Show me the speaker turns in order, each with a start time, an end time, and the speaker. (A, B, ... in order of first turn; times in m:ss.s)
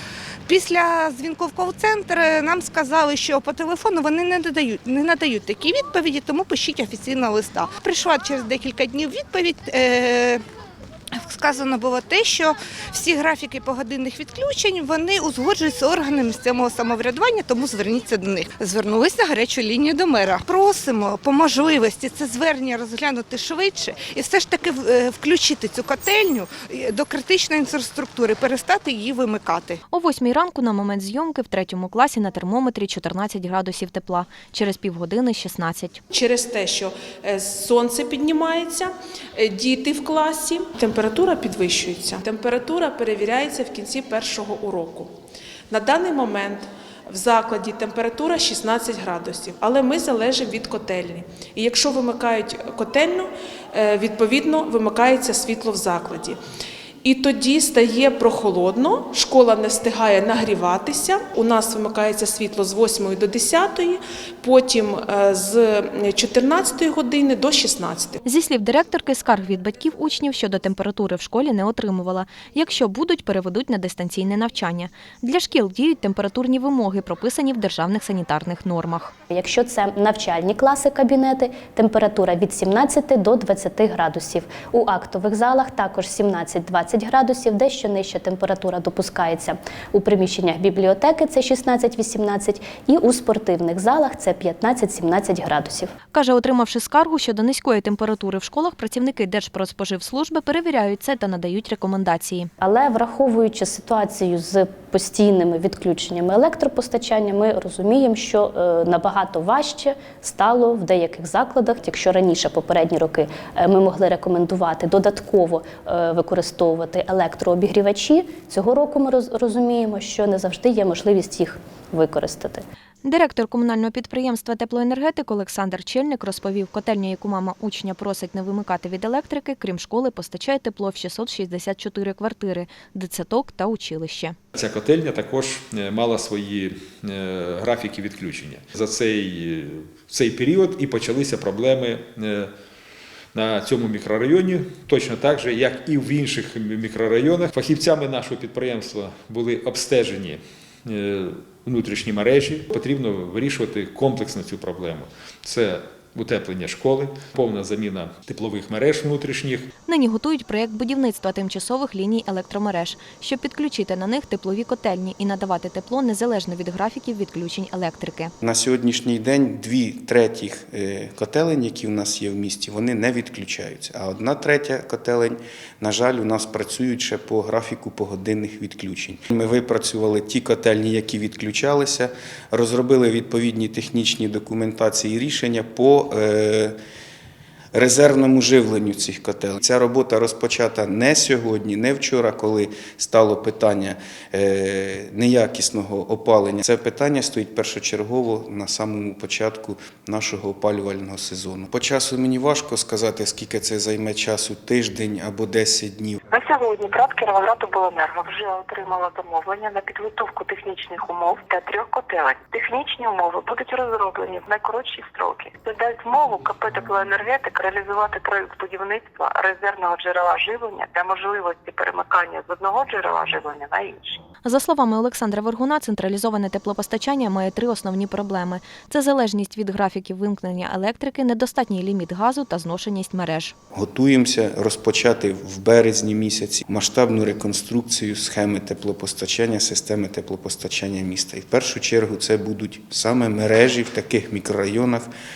0:00.5-0:10.4 A
0:11.1-0:29.8 A
0:29.9-0:36.0 B
0:36.1-0:45.1 C
0:45.7-0:56.4 C
0:57.0-1:08.2 C
1:08.2-1:19.1 B
1:19.3-1:35.9 D
1:36.1-1:42.5 B
1:42.6-2:02.6 D
2:03.0-2:14.4 B
2:14.5-2:22.5 E
2:23.3-2:39.7 E
2:39.8-2:48.3 B
2:48.4-3:06.8 F
3:07.7-3:26.2 F
3:26.3-3:44.2 G
3:44.4-3:53.5 B
3:53.7-4:05.1 F